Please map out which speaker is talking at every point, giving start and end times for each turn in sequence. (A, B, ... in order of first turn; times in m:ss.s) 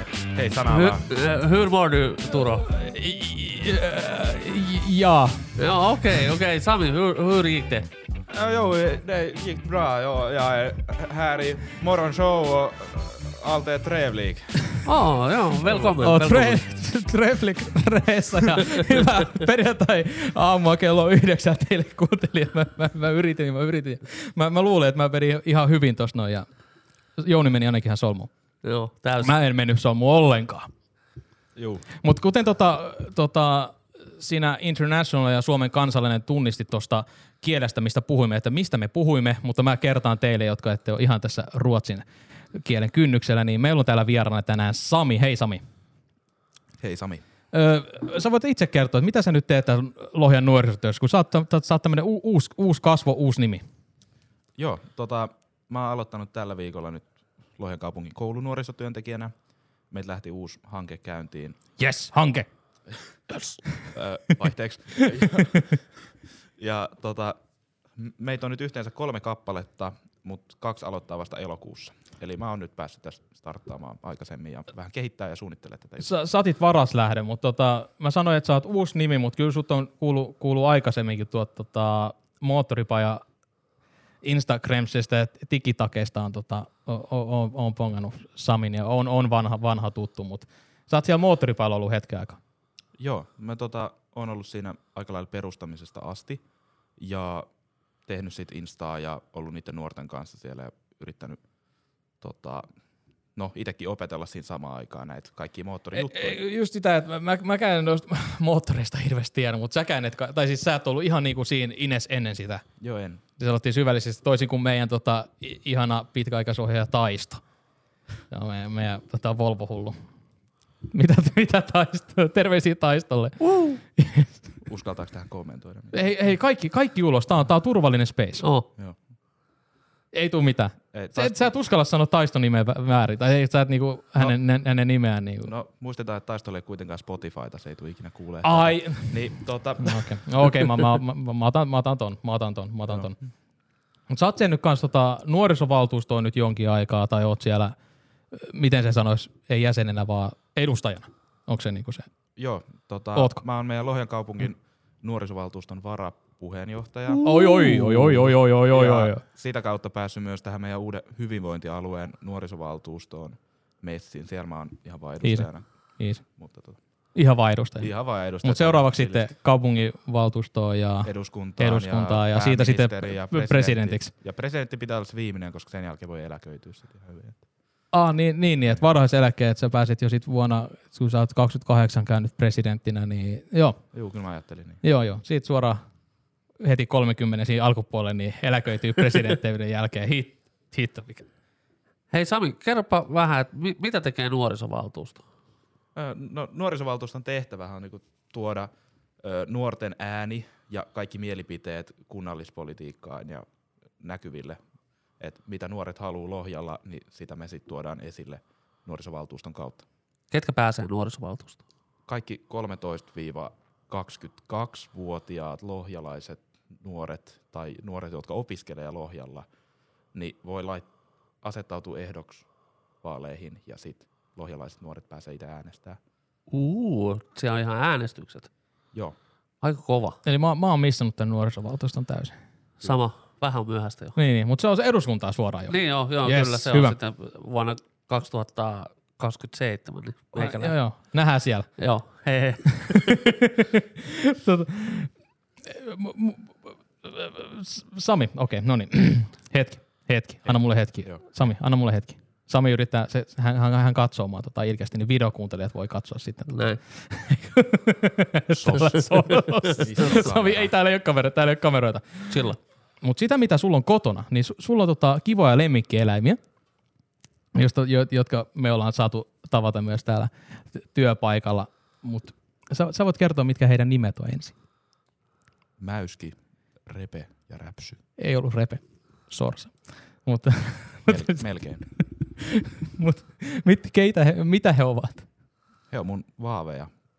0:00.3-0:01.1 A
0:00.7-0:02.7 B
0:02.6-0:05.4 C
0:05.6-0:07.9 B
0:08.3-0:14.7 A
0:14.8-0:16.6 B
0:15.7-0:26.5 C
0:27.2-0:28.3 C
0:28.6-0:29.3 B
0:29.2-0:30.7 C
0:31.6-0:31.8 A
0:32.0-0:42.0 C
0:42.6-0:45.6 C
0:46.8-0:47.2 A
0:47.5-0:53.6 C
0:54.6-0:59.3 A
0:59.9-1:01.6 A
1:01.8-1:02.5 C
1:03.9-1:05.7 A
1:06.6-1:07.4 A
1:08.0-1:16.1 A
1:16.0-1:23.2 C
1:24.2-1:32.4 C
1:33.0-1:36.4 A
1:37.0-1:37.5 A
1:38.1-1:41.4 A
1:42.2-1:42.7 A
1:43.4-1:46.4 A
1:45.9-1:52.6 C
1:52.8-1:53.2 A
1:53.4-1:57.4 C
1:58.3-2:00.0 C
2:00.9-2:04.4 C
2:04.6-2:06.0 A
2:05.9-2:08.4 C
2:08.4-2:08.7 B
2:10.1-2:15.5 C
2:10.9-2:11.5 A
2:15.4-2:20.4 A
2:18.4-2:23.2 C
2:22.9-2:23.1 A
2:24.1-2:27.8 C
2:28.3-2:32.1 C
2:32.4-2:37.2 A
2:33.2-2:33.4 C
2:37.2-2:37.9 B
2:37.2-2:39.2 C
2:37.8-2:45.7 A
2:45.2-2:46.2 C
2:46.2-2:46.8 A
2:47.2-2:54.1 C
2:47.8-2:49.3 A
2:51.0-2:57.4 A
2:57.9-3:03.8 C
3:03.9-3:04.8 A
3:04.8-3:05.8 C
3:06.6-3:11.3 C
3:12.1-3:15.2 B
3:16.0-3:18.7 A
3:19.2-3:23.4 A
3:24.0-3:24.6 A
3:25.2-3:29.8 A
3:30.3-3:31.6 B
3:32.1-3:39.4 A
3:40.1-3:40.9 A
3:41.4-3:42.5 A
3:43.0-3:46.0 A
3:46.5-3:48.5 B
3:49.6-3:50.2 B
3:50.2-3:52.4 C
3:52.8-3:54.2 B
3:54.2-3:57.0 C
3:55.7-4:00.8 B
4:00.4-4:01.7 C
4:01.8-4:03.3 B
4:03.3-4:05.1 C
4:05.6-4:22.4 C
4:10.4-4:11.2 A
4:16.5-4:16.8 B
4:18.5-4:18.9 A
4:19.8-4:20.7 A
4:22.3-4:22.6 B
4:23.0-4:26.4 C
4:27.5-4:34.6 C
4:35.8-4:36.4 A
4:36.9-4:38.0 A
4:38.2-4:41.4 C
4:41.1-4:41.9 A
4:42.2-4:45.3 C
4:45.9-4:46.9 A